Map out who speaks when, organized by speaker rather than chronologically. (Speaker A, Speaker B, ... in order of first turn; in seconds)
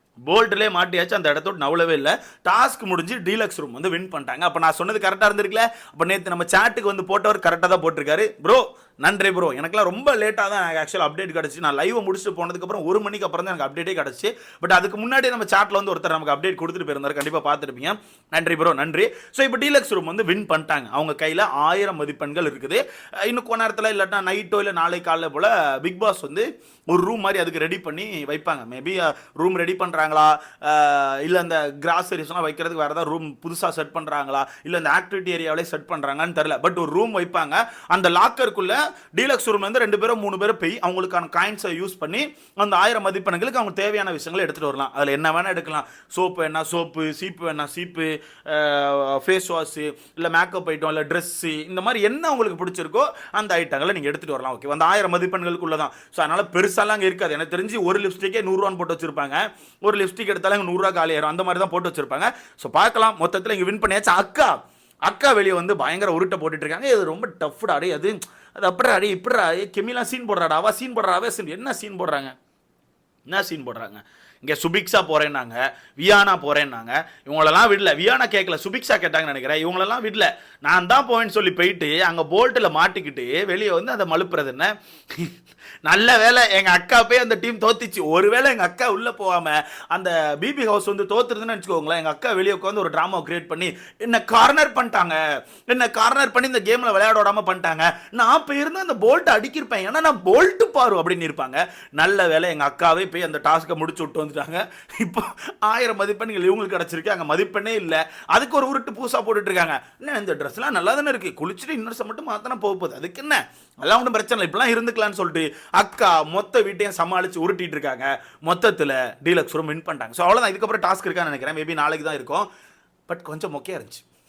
Speaker A: 0.3-64.5, 65.0-72.3, 73.3-85.3, 85.8-122.5, 123.1-124.0